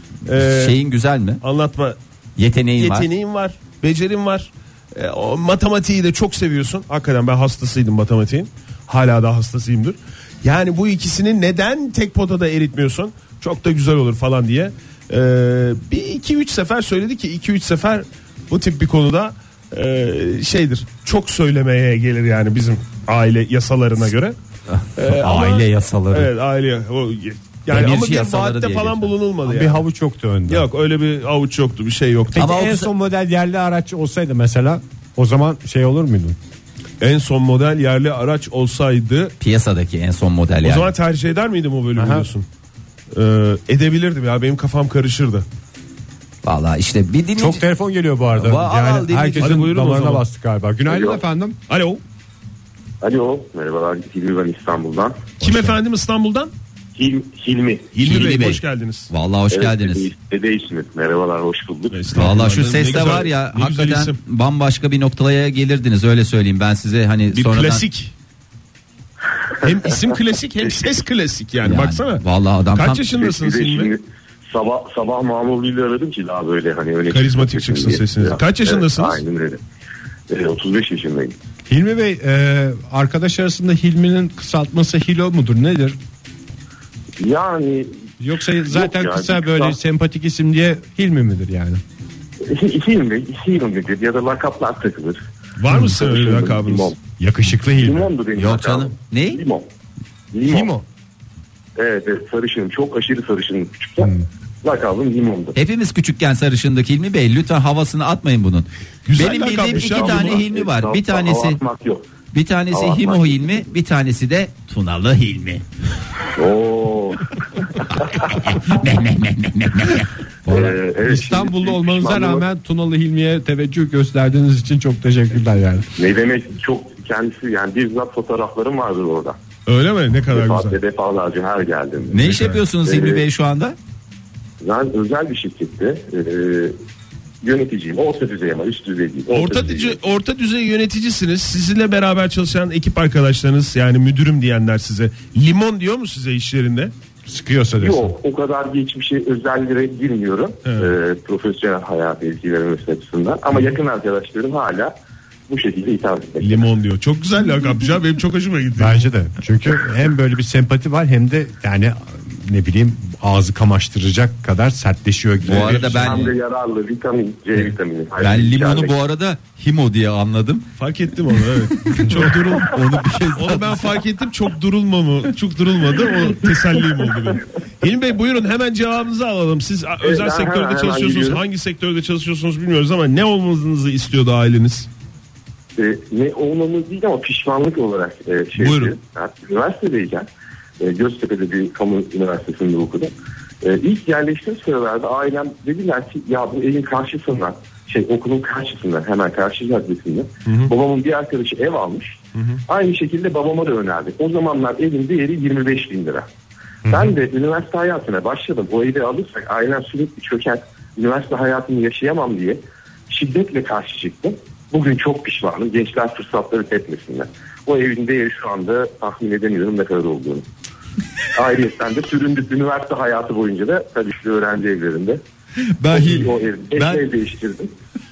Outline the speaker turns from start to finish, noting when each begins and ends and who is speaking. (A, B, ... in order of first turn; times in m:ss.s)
0:00.2-0:00.8 A
0:00.3-0:01.4 B
0:01.4-0:02.0 A
0:02.4-0:03.1 B
0:02.8-0:24.4 A
0:24.7-0:26.3 B
0:25.0-0:29.8 A
0:27.7-0:29.1 B
0:29.4-0:30.7 C
0:30.5-0:32.5 A
0:32.3-0:36.4 C
0:32.4-0:32.9 B
0:37.0-0:39.3 A
0:39.4-0:40.9 B
0:40.6-0:42.5 A
0:42.0-0:42.2 C
0:43.1-0:45.4 A
0:46.4-0:47.6 B
0:47.4-0:51.6 C
0:48.4-0:49.6 B
0:49.4-0:50.2 A
0:50.9-0:51.2 D
0:51.7-0:52.0 A
0:53.0-0:55.3 D
0:55.4-0:55.8 C
0:55.4-0:56.5 A
0:57.0-0:57.9 D
0:57.9-0:59.1 A
0:58.0-1:00.1 B
0:59.5-1:02.1 D
1:01.9-1:04.2 A
1:02.1-1:07.8 B
1:07.3-1:08.1 A
1:09.6-1:13.9 A
1:11.6-1:13.0 B
1:13.1-1:19.6 D
1:17.1-1:19.2 A
1:20.3-1:21.4 D
1:21.7-1:26.0 C
1:27.2-1:29.8 D
1:28.2-1:31.8 C
1:32.5-1:35.2 D
1:35.6-1:36.9 A
1:35.8-1:37.0 D
1:37.2-1:38.1 C
1:37.8-1:39.6 D
1:38.4-1:39.4 B
1:40.3-1:40.7 D
1:40.5-1:40.8 C
1:41.8-1:45.6 D
1:44.0-1:44.2 C
1:45.5-1:51.6 B
1:49.0-1:50.4 A
1:49.7-1:52.1 D
1:52.3-1:55.6 B
1:52.7-1:53.6 D
1:56.4-1:58.4 D
1:57.9-2:00.6 B
2:00.5-2:02.4 D
2:00.5-2:05.9 C
2:06.0-2:09.4 D
2:09.6-2:10.8 A
2:10.3-2:13.2 D
2:12.1-2:13.8 B
2:12.2-2:12.6 A
2:14.6-2:16.8 D
2:17.4-2:20.0 D
2:19.3-2:26.9 A
2:27.3-2:28.1 C
2:27.8-2:34.9 D
2:30.6-2:30.9 A
2:35.5-2:36.7 D
2:36.4-2:39.0 A
2:38.8-2:46.3 C
2:45.5-2:46.4 B
2:45.7-2:49.0 D
2:48.2-2:50.7 B
2:50.8-2:52.7 A
2:51.9-2:54.0 B
2:53.4-3:04.9 A
3:00.0-3:01.4 D
3:05.8-3:10.3 D
3:08.6-3:08.9 A
3:10.8-3:26.3 D
3:20.5-3:20.7 A
3:22.4-3:22.6 A
3:26.9-3:27.1 C
3:26.9-3:40.5 D
3:41.3-3:45.2 D
3:45.6-3:47.0 B
3:45.9-3:47.7 D